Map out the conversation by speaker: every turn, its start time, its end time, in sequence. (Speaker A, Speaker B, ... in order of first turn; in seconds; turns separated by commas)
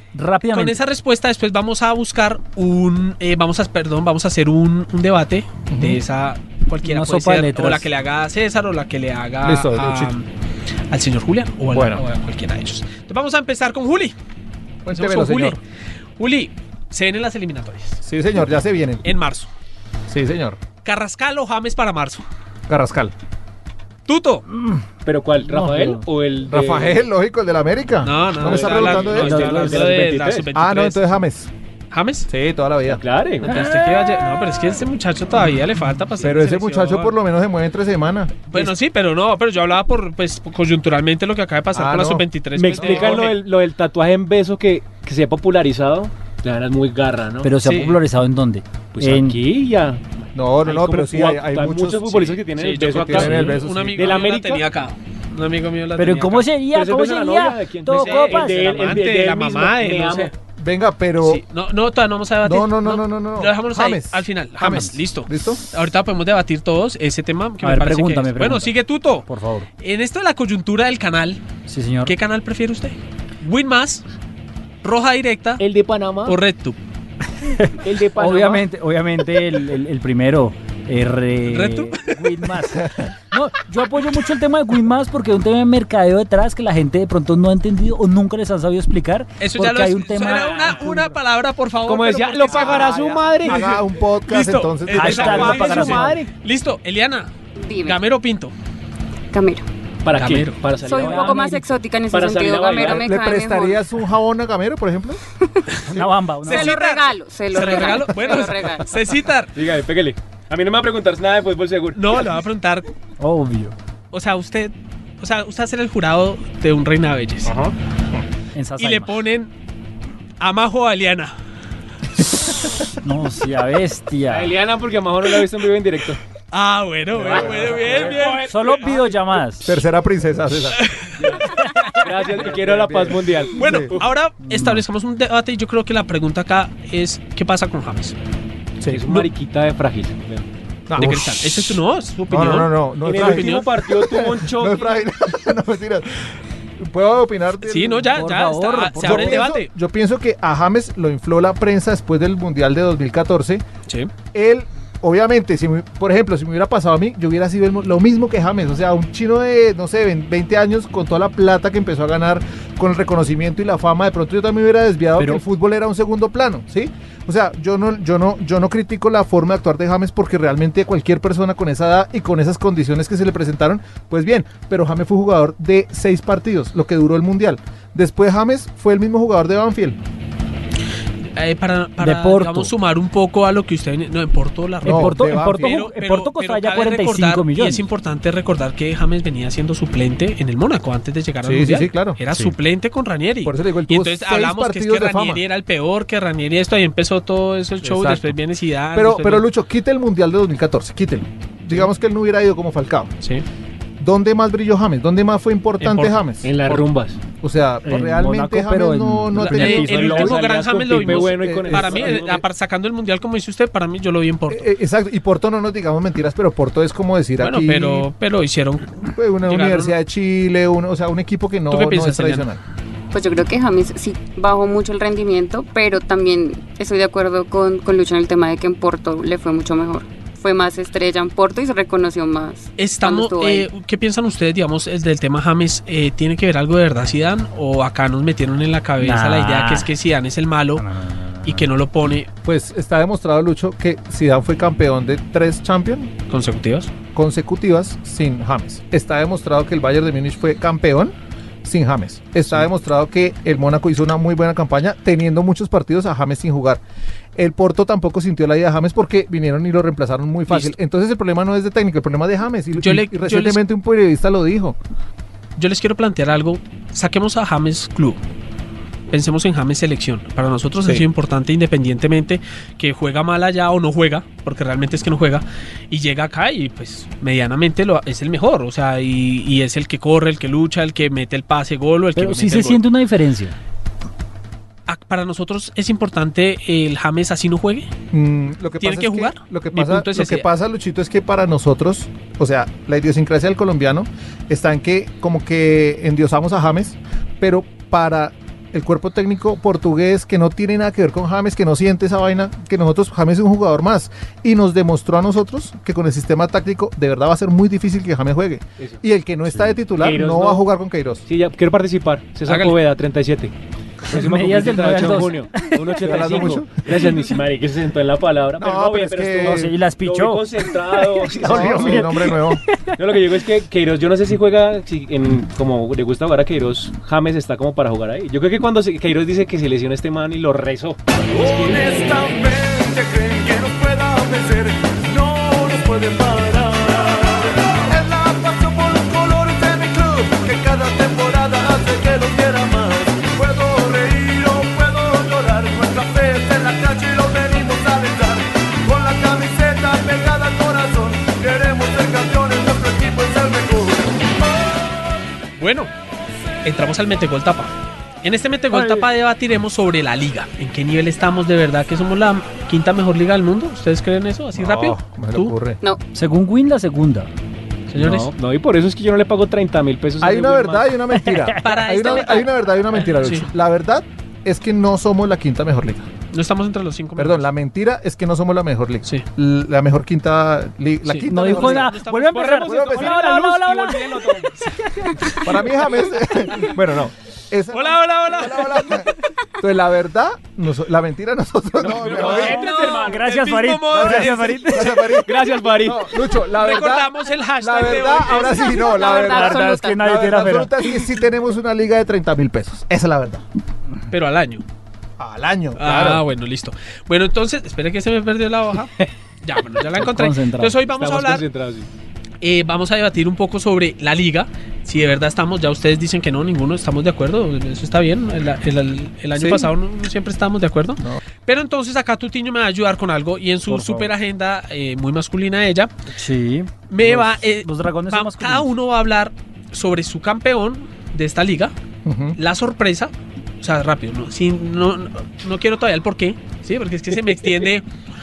Speaker A: 0.1-0.8, Speaker B: 0.5-10.2, Speaker C: 5.7-6.0, Speaker A: 6.8-7.8, Speaker C: 9.4-10.1, Speaker B: 10.9-14.1, Speaker C: 11.7-12.0, Speaker C: 14.8-15.6, Speaker B: 14.9-15.6, Speaker B: 16.2-18.0, Speaker C: 18.0-19.0, Speaker B: 19.0-19.5, Speaker C: 20.1-20.6, Speaker B: 20.8-22.2, Speaker C: 22.7-23.1, Speaker B: 24.1-24.4, Speaker A: 24.5-24.8, Speaker D: 25.0-27.0, Speaker A: 25.5-26.0, Speaker C: 26.5-29.5, Speaker B: 28.0-31.1, Speaker D: 28.4-30.5, Speaker A: 29.1-30.1, Speaker C: 30.5-31.5, Speaker B: 31.9-32.3, Speaker C: 32.3-33.0, Speaker D: 32.9-33.6, Speaker B: 33.4-37.1, Speaker A: 33.4-34.2, Speaker C: 36.2-38.7, Speaker B: 38.5-43.4, Speaker C: 41.7-43.3, Speaker D: 42.5-47.5, Speaker A: 47.4-49.4, Speaker B: 47.6-48.0, Speaker D: 48.9-54.6, Speaker C: 50.3-54.3, Speaker B: 52.5-56.5, Speaker A: 56.0-58.9, Speaker D: 56.7-60.3, Speaker B: 57.9-60.3, Speaker C: 60.6-61.4, Speaker B: 61.2-69.2, Speaker C: 62.4-65.6, Speaker A: 67.6-68.7, Speaker A: 69.2-69.7, Speaker B: 69.8-71.4, Speaker A: 71.7-72.2, Speaker B: 72.0-74.0, Speaker B: 74.8-75.6, Speaker D: 75.6-76.4, Speaker B: 76.2-76.8, Speaker A: 77.5-91.1, Speaker D: 77.8-78.6, Speaker B: 81.5-82.2, Speaker B: 89.4-93.7, Speaker D: 90.2-90.8, Speaker D: 91.8-93.7, Speaker C: 93.4-95.9, Speaker B: 94.3-97.3, Speaker A: 94.9-96.2, Speaker D: 95.0-96.3, Speaker E: 97.6-98.0, Speaker B: 97.8-98.5, Speaker E: 99.3-99.6, Speaker D: 100.0-101.5, Speaker B: 100.1-100.6, Speaker E: 100.8-103.8, Speaker A: 100.9-101.7, Speaker D: 102.1-103.0, Speaker C: 102.8-105.2, Speaker E: 105.5-105.8, Speaker A: 105.9-106.8, Speaker E: 106.4-108.9, Speaker B: 106.5-109.5, Speaker D: 109.5-112.2, Speaker B: 111.9-112.9, Speaker A: 113.2-113.7, Speaker B: 114.1-117.5, Speaker D: 117.5-117.7, Speaker A: 118.5-119.2, Speaker B: 118.8-119.5, Speaker B: 120.4-121.3, Speaker A: 123.0-124.5, Speaker D: 124.3-126.2, Speaker B: 126.5-128.7, Speaker D: 127.2-129.2, Speaker C: 127.2-128.1, Speaker A: 128.3-129.7, Speaker C: 129.6-130.8, Speaker B: 130.7-131.1, Speaker D: 131.2-131.4, Speaker A: 131.6-132.0, Speaker D: 132.0-134.1, Speaker C: 132.4-133.9, Speaker B: 133.5-138.1, Speaker A: 134.4-134.8, Speaker D: 138.9-140.5, Speaker C: 140.9-148.2, Speaker B: 140.9-143.7, Speaker D: 143.0-145.0, Speaker B: 147.6-149.7, Speaker A: 148.1-149.4, Speaker C: 149.0-153.6, Speaker C: 154.3-180.0, Speaker B: 181.3-199.5, Speaker A: 182.0-182.7, Speaker C: 184.8-185.8, Speaker A: 184.8-187.8, Speaker C: 191.4-192.2, Speaker C: 193.4-195.4, Speaker C: 197.8-198.4, Speaker C: 198.9-203.1, Speaker C: 204.0-206.6, Speaker B: 205.8-206.8, Speaker D: 206.4-207.2, Speaker C: 207.4-210.4, Speaker A: 207.8-210.1, Speaker B: 209.3-214.7, Speaker D: 209.5-212.4, Speaker C: 211.1-212.4, Speaker C: 214.5-218.1, Speaker B: 217.4-219.9, Speaker C: 219.1-222.6, Speaker B: 221.7-222.5, Speaker E: 223.1-233.7, Speaker B: 232.8-240.8, Speaker A: 239.0-239.9, Speaker A: 240.8-241.7, Speaker B: 241.4-242.3, Speaker C: 242.4-246.1, Speaker B: 246.3-246.9, Speaker C: 247.1-256.8, Speaker C: 257.4-264.8, Speaker B: 260.5-260.7, Speaker B: 262.8-263.6, Speaker B: 265.6-268.2, Speaker B: 269.1-282.8, Speaker A: 282.1-283.5, Speaker B: 284.9-287.9, Speaker C: 288.1-311.2, Speaker B: 288.8-290.5, Speaker D: 309.9-310.7, Speaker D: 311.3-313.5, Speaker B: 312.5-312.8, Speaker D: 314.1-322.2, Speaker A: 314.1-316.3, Speaker C: 316.0-316.8, Speaker C: 318.6-319.7, Speaker A: 319.4-322.4, Speaker C: 321.4-322.6, Speaker D: 323.0-332.2, Speaker F: 331.3-354.3, Speaker B: 355.6-355.9, Speaker B: 356.6-365.5, Speaker A: 358.7-359.0, Speaker C: 364.6-365.8, Speaker A: 366.1-367.3, Speaker B: 367.9-368.3, Speaker D: 368.0-370.9, Speaker C: 370.2-376.1, Speaker A: 371.2-371.6, Speaker B: 371.6-373.5, Speaker B: 376.3-377.4, Speaker C: 377.1-381.9, Speaker B: 381.1-382.6, Speaker A: 381.3-384.3, Speaker D: 382.3-384.5, Speaker C: 382.7-383.1, Speaker A: 384.8-385.4, Speaker C: 385.4-392.6, Speaker B: 387.7-389.1, Speaker D: 391.8-393.2, Speaker B: 391.9-395.1, Speaker A: 392.5-395.1, Speaker C: 393.9-403.4, Speaker D: 395.2-396.0, Speaker B: 396.5-398.7, Speaker E: 398.2-400.0, Speaker A: 399.1-400.8, Speaker B: 404.1-404.6, Speaker C: 405.2-406.2, Speaker B: 405.8-411.4, Speaker A: 410.0-410.8, Speaker D: 410.9-411.9, Speaker B: 412.4-425.9, Speaker C: 419.3-419.7, Speaker A: 423.7-424.1, Speaker A: 426.1-428.7, Speaker B: 426.9-431.7, Speaker C: 432.0-432.4, Speaker B: 432.4-437.9, Speaker D: 437.3-437.6